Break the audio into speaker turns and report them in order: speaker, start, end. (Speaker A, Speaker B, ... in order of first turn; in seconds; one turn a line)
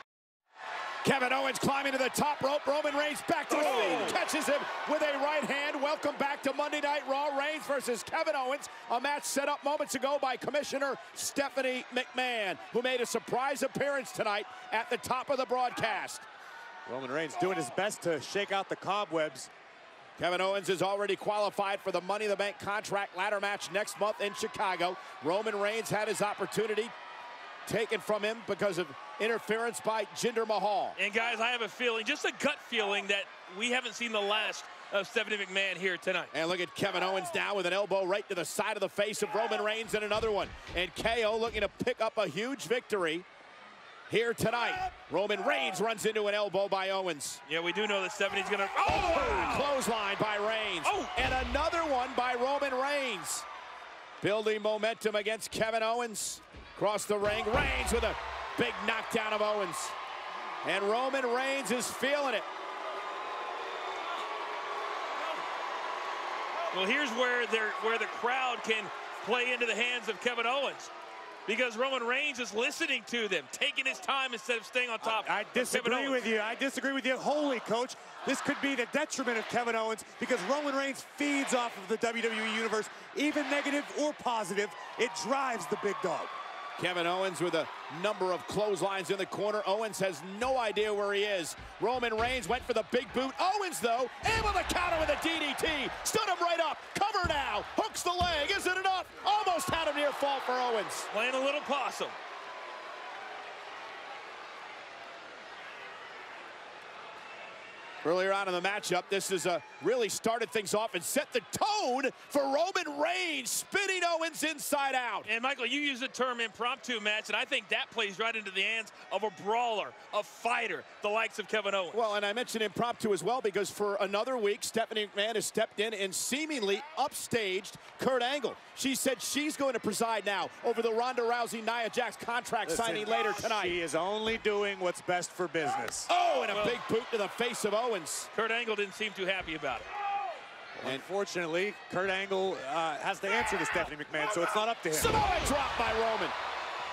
Speaker A: 1.0-16.2
Speaker B: 3.5-4.2
Speaker C: 16.9-19.5
Speaker A: 20.2-26.9
Speaker A: 27.6-31.0
Speaker B: 30.9-36.3
Speaker A: 36.3-43.2
Speaker A: 44.1-47.4
Speaker B: 47.5-49.8
Speaker A: 48.8-53.5
Speaker B: 50.8-51.2
Speaker A: 54.2-60.0
Speaker A: 60.6-62.5
Speaker B: 66.7-70.9
Speaker B: 71.5-76.2
Speaker C: 75.0-86.3
Speaker A: 86.8-101.1
Speaker B: 101.1-102.2
Speaker A: 108.0-115.3
Speaker B: 115.2-122.0
Speaker A: 121.9-133.8
Speaker C: 132.7-136.1
Speaker A: 136.1-138.3
Speaker B: 136.5-136.8
Speaker B: 138.3-139.9
Speaker C: 140.8-145.1
Speaker A: 144.9-146.3